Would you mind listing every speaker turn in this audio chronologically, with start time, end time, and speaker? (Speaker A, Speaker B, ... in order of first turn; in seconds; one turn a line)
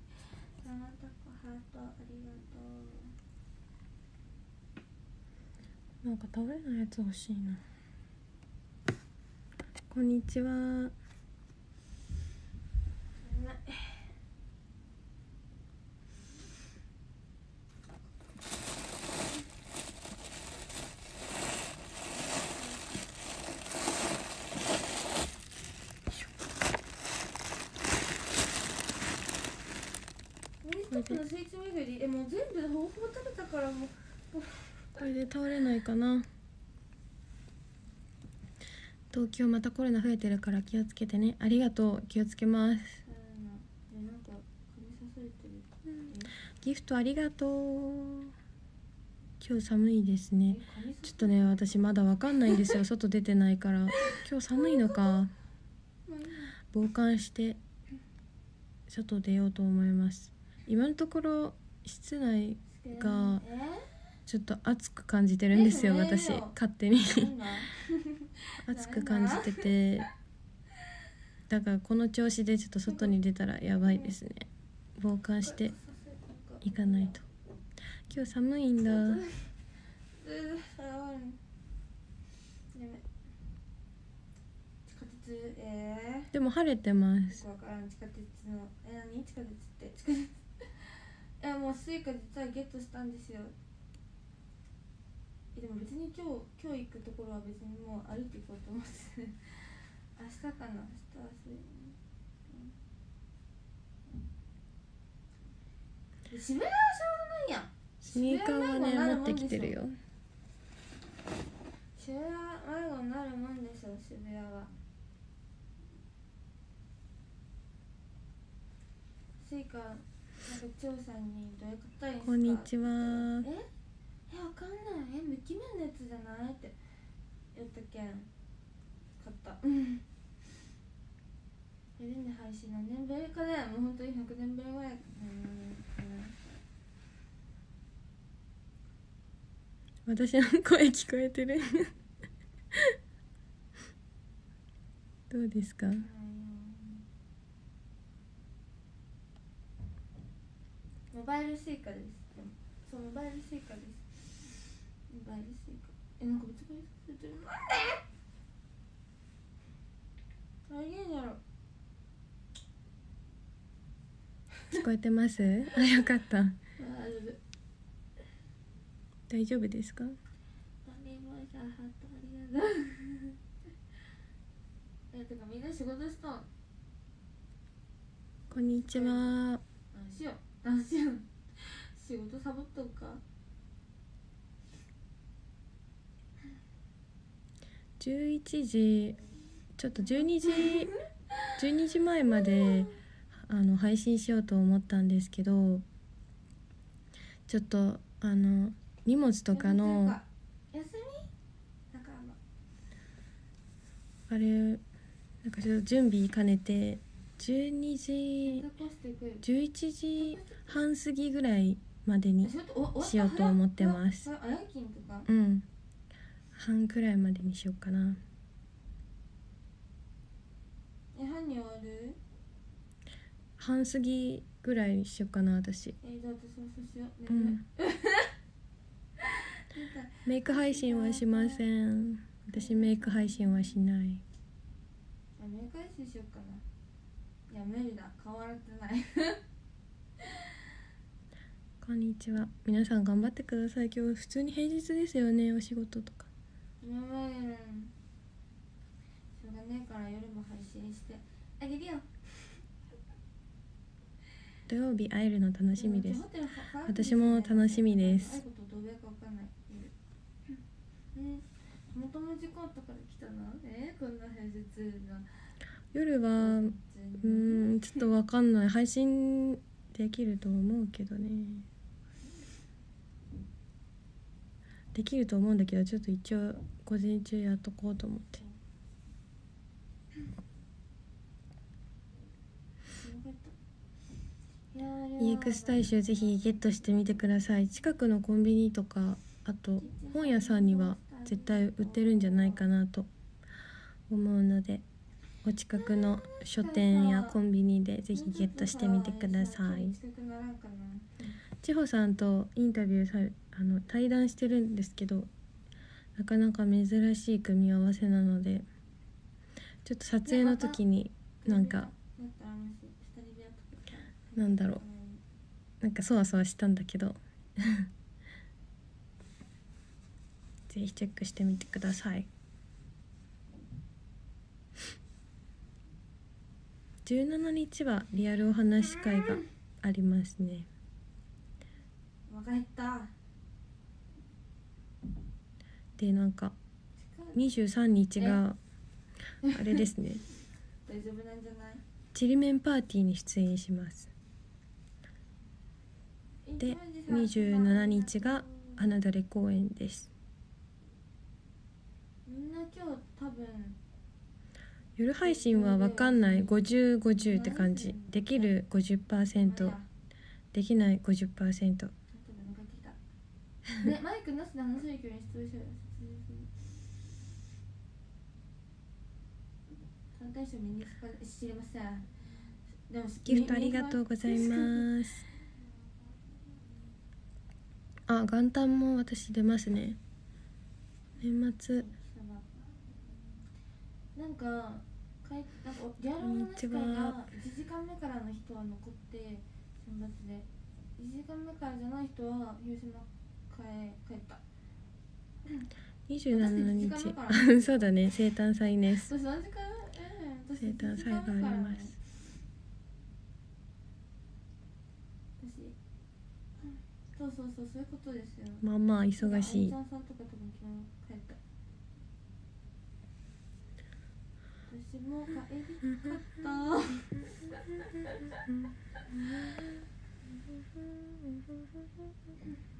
Speaker A: 0.6-3.1
Speaker B: 6.0-7.6
Speaker B: 9.9-10.9
Speaker A: 13.2-14.1
Speaker A: 22.3-22.9
Speaker A: 30.6-35.0
Speaker B: 30.9-31.2
Speaker B: 35.0-36.3
Speaker B: 39.1-43.0
Speaker A: 43.0-46.3
Speaker B: 46.6-48.3
Speaker B: 49.4-55.3
Speaker A: 50.5-52.8
Speaker A: 53.9-55.2
Speaker A: 56.0-56.6
Speaker B: 56.7-57.6
Speaker B: 58.9-63.4
Speaker A: 62.7-64.0
Speaker B: 64.3-67.3
Speaker A: 65.5-69.7
Speaker B: 68.6-70.1
Speaker B: 71.5-75.7
Speaker A: 72.8-73.2
Speaker A: 73.8-74.1
Speaker A: 75.4-77.2
Speaker B: 76.6-77.2
Speaker B: 78.1-79.2
Speaker A: 78.8-79.5
Speaker A: 80.1-81.4
Speaker A: 82.7-83.0
Speaker A: 84.8-86.3
Speaker B: 86.3-87.4
Speaker A: 87.3-93.5
Speaker A: 95.5-102.0
Speaker A: 102.5-102.7
Speaker A: 106.3-109.8
Speaker B: 108.0-110.0
Speaker A: 111.9-114.7
Speaker A: 119.4-123.7
Speaker B: 122.2-123.5
Speaker A: 124.3-126.8
Speaker A: 127.5-128.3
Speaker A: 129.2-130.0
Speaker A: 132.0-136.6
Speaker B: 140.1-141.9
Speaker B: 145.3-146.1
Speaker A: 146.0-147.0
Speaker A: 151.1-154.2
Speaker A: 155.1-158.0
Speaker A: 160.7-161.4
Speaker B: 164.7-166.6
Speaker A: 166.8-167.4
Speaker B: 169.3-170.2
Speaker A: 170.8-173.4
Speaker A: 175.1-176.5
Speaker B: 178.5-179.6
Speaker A: 178.5-179.3
Speaker A: 179.9-183.2
Speaker B: 188.0-189.2
Speaker B: 189.8-190.9
Speaker A: 190.0-191.6
Speaker B: 191.6-195.8
Speaker A: 192.3-192.9
Speaker B: 197.5-200.2
Speaker A: 199.5-201.3
Speaker A: 201.9-202.4
Speaker B: 204.3-204.8
Speaker B: 205.4-208.6
Speaker A: 208.4-209.4
Speaker B: 209.4-214.3
Speaker A: 210.2-210.8
Speaker A: 212.4-215.3
Speaker B: 215.3-215.7
Speaker B: 216.5-218.2
Speaker A: 221.1-222.2
Speaker B: 223.6-225.9
Speaker A: 226.0-228.3
Speaker B: 227.3-227.6
Speaker A: 229.2-231.6
Speaker B: 230.2-234.2
Speaker A: 232.5-233.9
Speaker A: 235.4-236.6
Speaker A: 237.5-239.4
Speaker A: 240.2-240.5
Speaker B: 241.8-246.3
Speaker A: 246.8-247.9
Speaker A: 249.3-252.6
Speaker B: 254.7-256.2
Speaker A: 255.8-259.9
Speaker B: 256.9-258.4
Speaker A: 261.1-265.3
Speaker B: 265.9-271.7
Speaker A: 266.4-268.1
Speaker B: 274.9-278.4
Speaker A: 283.0-283.5
Speaker A: 284.7-286.6
Speaker B: 285.2-293.1
Speaker A: 289.8-292.7
Speaker B: 294.1-294.8
Speaker B: 295.4-300.0
Speaker A: 295.7-297.4
Speaker A: 298.1-301.3
Speaker B: 301.6-305.3
Speaker B: 306.2-308.6
Speaker B: 309.8-311.9
Speaker A: 310.2-310.8
Speaker A: 311.4-315.2
Speaker B: 314.4-314.8
Speaker B: 315.8-317.9
Speaker B: 320.7-322.3
Speaker B: 327.0-330.7
Speaker A: 332.3-333.1
Speaker B: 336.0-336.6
Speaker A: 337.0-337.4
Speaker B: 337.3-338.6
Speaker A: 339.4-339.8
Speaker B: 339.5-340.2
Speaker A: 340.9-341.8
Speaker B: 342.1-344.1
Speaker A: 346.4-348.9
Speaker B: 346.6-350.1
Speaker A: 352.2-353.8
Speaker B: 355.0-359.7
Speaker A: 355.2-356.6
Speaker A: 357.2-358.5
Speaker A: 359.3-359.9
Speaker B: 360.5-361.9
Speaker A: 362.1-363.0
Speaker A: 363.8-366.5
Speaker A: 370.1-372.1
Speaker A: 372.9-374.9
Speaker B: 373.2-375.2
Speaker B: 378.1-380.0
Speaker B: 381.2-381.9
Speaker A: 381.8-383.2
Speaker A: 384.1-394.4
Speaker B: 386.2-387.2
Speaker B: 396.1-399.1
Speaker A: 396.3-398.1
Speaker A: 398.9-402.0
Speaker B: 400.6-401.9
Speaker A: 405.4-405.8
Speaker A: 406.6-408.6
Speaker B: 408.6-409.7
Speaker A: 409.2-411.4
Speaker A: 414.7-418.4
Speaker B: 415.9-416.2
Speaker B: 418.4-419.8
Speaker B: 420.6-421.8